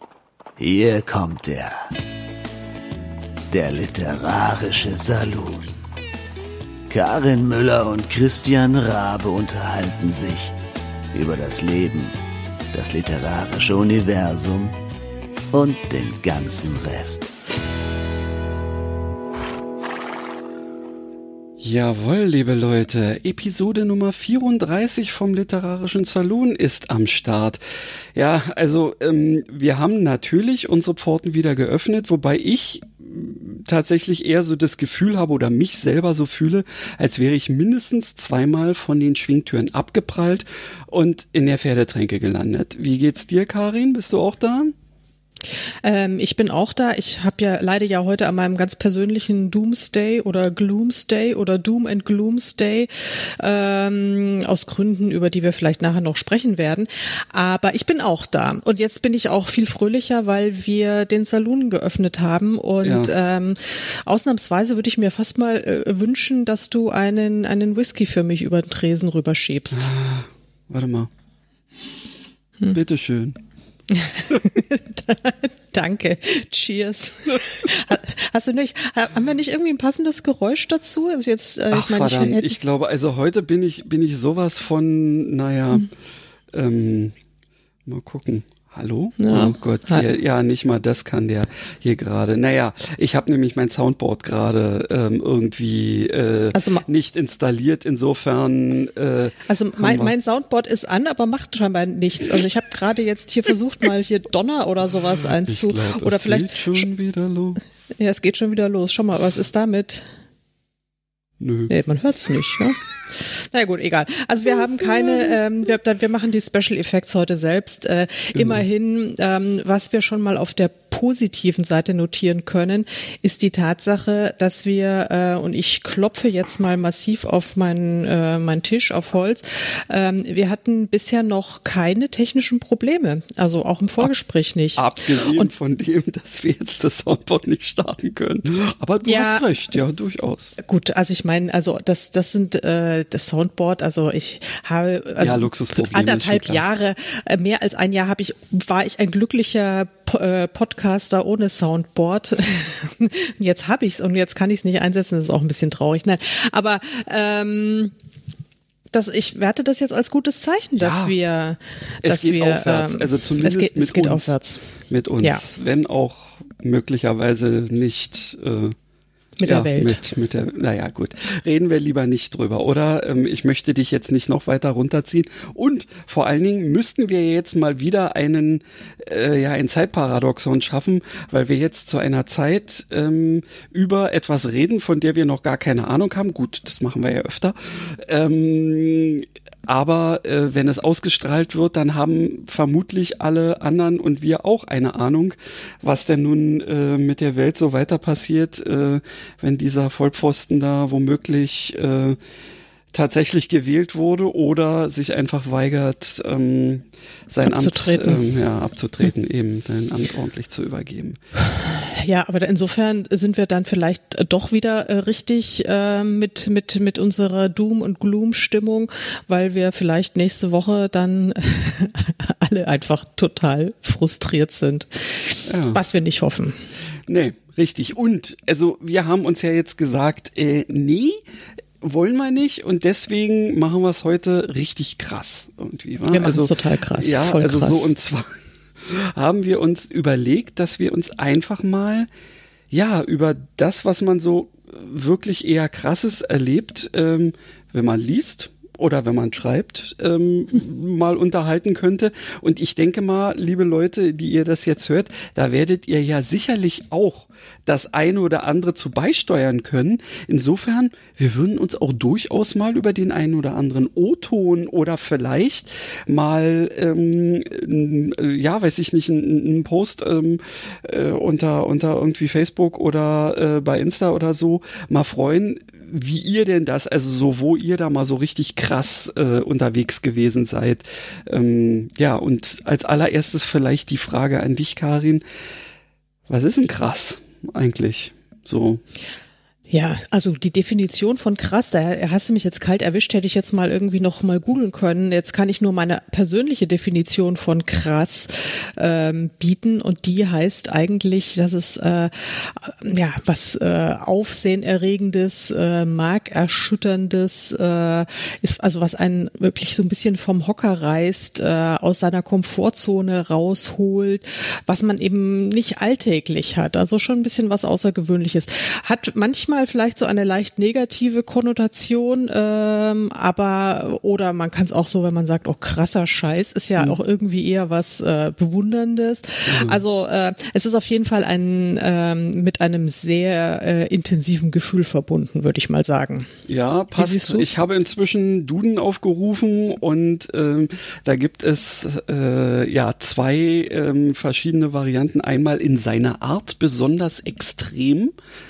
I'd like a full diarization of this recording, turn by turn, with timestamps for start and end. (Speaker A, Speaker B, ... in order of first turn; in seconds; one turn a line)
Speaker A: 0.6-1.7
Speaker A: 3.5-5.7
Speaker A: 6.9-10.5
Speaker A: 11.1-12.1
Speaker A: 12.7-14.7
Speaker A: 15.5-17.3
Speaker B: 21.6-27.6
Speaker B: 28.1-44.7
Speaker C: 45.8-69.9
Speaker B: 62.8-63.1
Speaker B: 69.7-71.1
Speaker B: 72.7-73.4
Speaker C: 73.9-82.6
Speaker B: 81.7-85.9
Speaker B: 86.5-87.1
Speaker B: 87.8-100.1
Speaker C: 89.2-90.0
Speaker C: 96.5-96.8
Speaker C: 99.5-106.9
Speaker B: 105.3-107.6
Speaker C: 108.0-110.1
Speaker B: 111.4-111.7
Speaker C: 111.7-135.5
Speaker B: 118.3-118.6
Speaker B: 134.8-140.6
Speaker C: 139.0-139.4
Speaker C: 140.6-157.9
Speaker B: 145.2-146.6
Speaker C: 158.9-164.6
Speaker B: 160.8-161.1
Speaker B: 162.0-168.8
Speaker C: 165.2-165.5
Speaker C: 169.4-170.1
Speaker B: 169.4-202.2
Speaker B: 202.9-211.2
Speaker C: 207.4-208.2
Speaker C: 211.7-226.6
Speaker B: 225.5-225.8
Speaker B: 227.1-231.2
Speaker B: 231.8-242.1
Speaker C: 236.1-237.9
Speaker B: 242.7-285.2
Speaker B: 286.3-288.8
Speaker C: 289.7-336.3
Speaker B: 329.5-329.8
Speaker B: 336.5-348.1
Speaker C: 336.9-337.5